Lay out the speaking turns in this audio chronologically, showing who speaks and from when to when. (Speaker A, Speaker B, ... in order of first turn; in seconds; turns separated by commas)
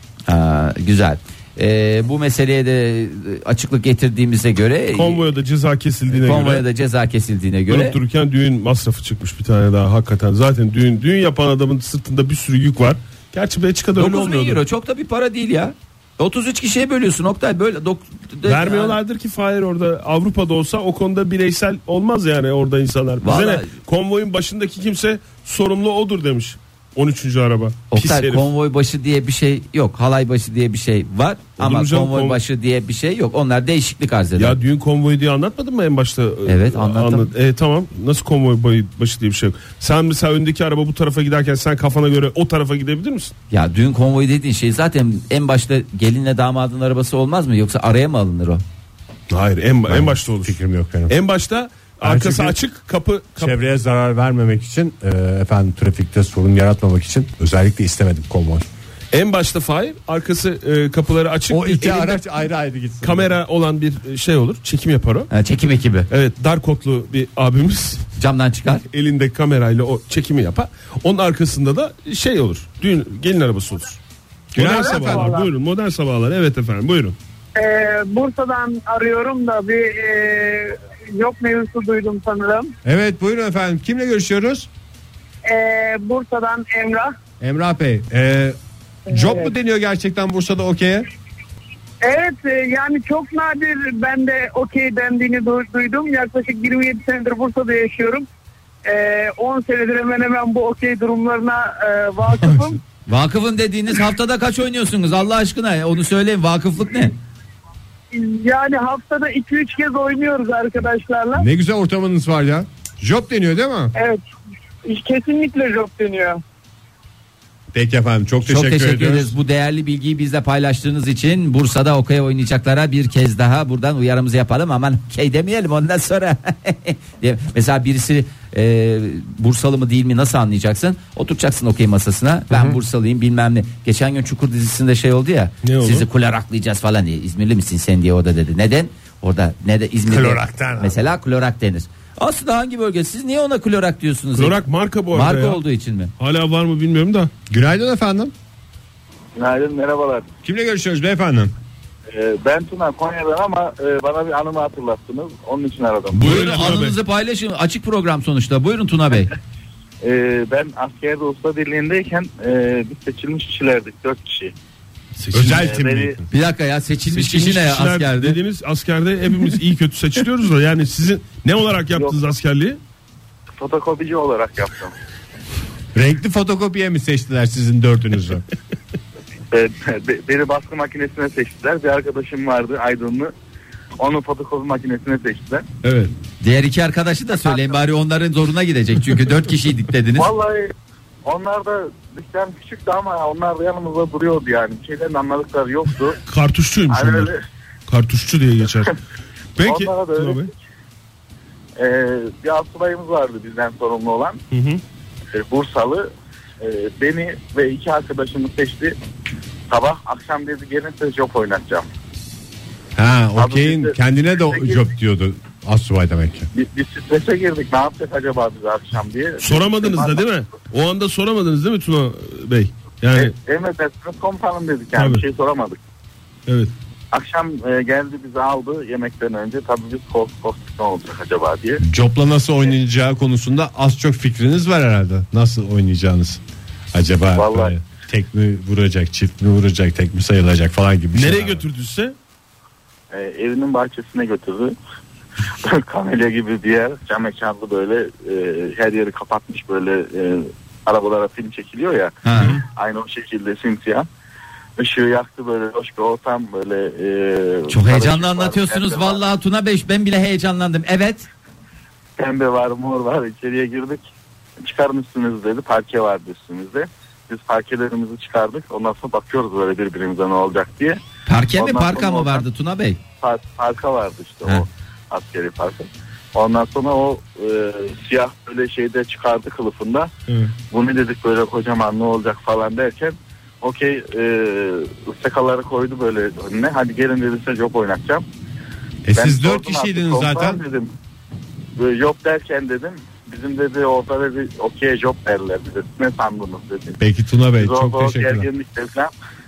Speaker A: 0.3-5.2, Speaker B: 5.0-6.7, Speaker A: 6.1-8.0, Speaker B: 7.7-14.6, Speaker A: 14.0-19.0, Speaker B: 18.5-28.5, Speaker A: 23.2-23.7, Speaker A: 27.9-34.6, Speaker B: 31.6-32.4, Speaker B: 34.4-43.3, Speaker A: 36.5-37.3, Speaker A: 43.5-48.6, Speaker B: 49.3-50.6, Speaker C: 49.9-51.2, Speaker B: 51.1-53.5, Speaker C: 52.0-52.6, Speaker C: 53.4-58.7, Speaker B: 59.1-62.2, Speaker C: 61.5-63.3, Speaker B: 63.0-65.3, Speaker A: 65.3-66.1, Speaker B: 66.1-68.0, Speaker A: 68.2-68.8, Speaker B: 68.9-74.0, Speaker B: 74.5-77.2, Speaker C: 74.5-75.3, Speaker D: 74.6-75.5, Speaker D: 77.6-82.7, Speaker C: 82.8-84.7, Speaker D: 85.4-87.2, Speaker C: 87.4-91.1, Speaker D: 89.1-89.5, Speaker D: 92.0-98.3, Speaker D: 98.8-102.8, Speaker A: 103.1-107.2, Speaker D: 108.1-111.5, Speaker C: 111.3-113.9, Speaker D: 114.0-114.2, Speaker D: 114.9-116.4, Speaker C: 117.7-119.3, Speaker A: 118.5-144.6, Speaker C: 132.5-132.8, Speaker B: 135.6-136.1, Speaker C: 140.1-141.0, Speaker B: 144.4-145.6, Speaker A: 145.1-146.1, Speaker B: 146.2-147.3, Speaker C: 147.5-148.3, Speaker E: 149.3-150.3, Speaker C: 150.4-151.5, Speaker E: 152.1-156.4, Speaker B: 156.1-157.0, Speaker A: 156.2-159.3, Speaker E: 160.0-164.5, Speaker B: 165.3-165.9, Speaker C: 165.3-166.2, Speaker E: 165.6-166.2, Speaker A: 166.3-168.4, Speaker B: 167.1-172.8, Speaker E: 173.6-174.9, Speaker C: 175.9-178.4, Speaker E: 179.5-183.3, Speaker E: 184.0-185.7, Speaker B: 185.8-186.1, Speaker A: 186.4-190.3, Speaker E: 187.4-187.8, Speaker E: 190.2-190.7, Speaker E: 191.2-196.2, Speaker B: 196.3-197.3, Speaker E: 196.9-197.4, Speaker B: 197.9-198.9, Speaker B: 199.6-200.5, Speaker E: 199.6-200.5, Speaker E: 201.8-204.4, Speaker B: 204.5-204.8, Speaker E: 205.3-209.0, Speaker E: 209.7-211.9, Speaker C: 213.0-216.5, Speaker E: 213.4-213.9, Speaker E: 214.5-214.8, Speaker E: 216.5-220.2, Speaker B: 219.4-223.3, Speaker E: 223.2-225.8, Speaker B: 224.9-225.2, Speaker B: 226.5-226.7, Speaker E: 227.1-231.8, Speaker C: 231.8-236.4, Speaker C: 236.9-241.6, Speaker E: 237.4-237.8, Speaker B: 241.1-242.2, Speaker E: 243.1-244.8, Speaker E: 245.6-254.1, Speaker A: 252.2-252.6, Speaker E: 254.8-259.3, Speaker A: 257.7-261.3, Speaker E: 262.2-271.0, Speaker A: 271.3-273.0, Speaker E: 271.5-272.4, Speaker E: 273.2-280.1, Speaker E: 280.7-288.2, Speaker C: 289.1-290.6, Speaker E: 289.1-290.9, Speaker E: 291.8-297.0, Speaker C: 297.0-298.4, Speaker E: 297.6-299.1